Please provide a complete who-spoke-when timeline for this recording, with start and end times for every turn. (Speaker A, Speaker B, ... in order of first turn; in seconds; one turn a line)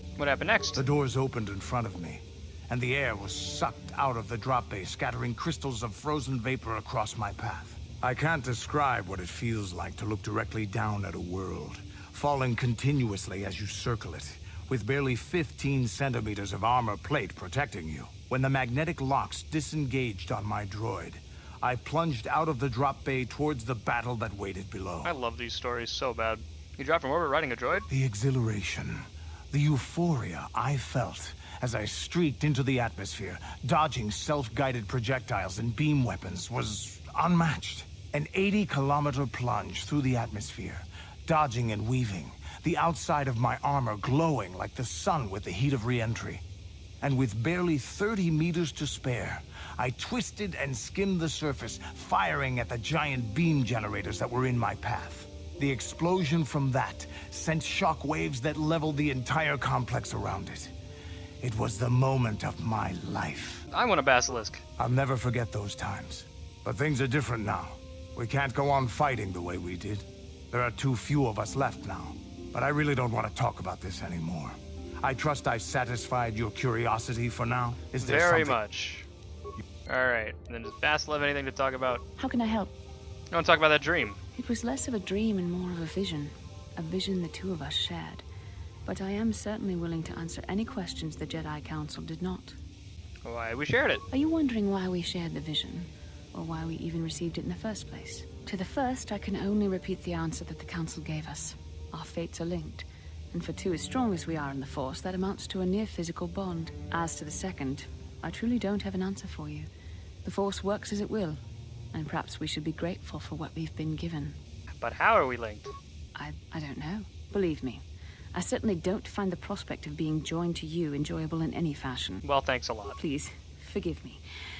Speaker A: 0.2-0.8
Speaker B: 0.8-25.2
Speaker A: 25.0-27.9
Speaker B: 27.9-46.4
Speaker B: 47.0-60.7
Speaker B: 61.4-63.6
Speaker A: 63.7-64.6
Speaker B: 64.8-78.6
Speaker A: 78.0-79.1
Speaker A: 79.9-82.0
Speaker C: 82.2-82.7
Speaker A: 83.3-84.2
Speaker C: 84.4-88.2
Speaker C: 88.8-92.6
Speaker A: 93.2-94.0
Speaker C: 94.1-109.7
Speaker C: 110.2-111.4
Speaker C: 111.9-114.4
Speaker A: 114.8-115.7
Speaker C: 116.2-122.2
Speaker A: 122.2-123.0
Speaker C: 123.0-124.2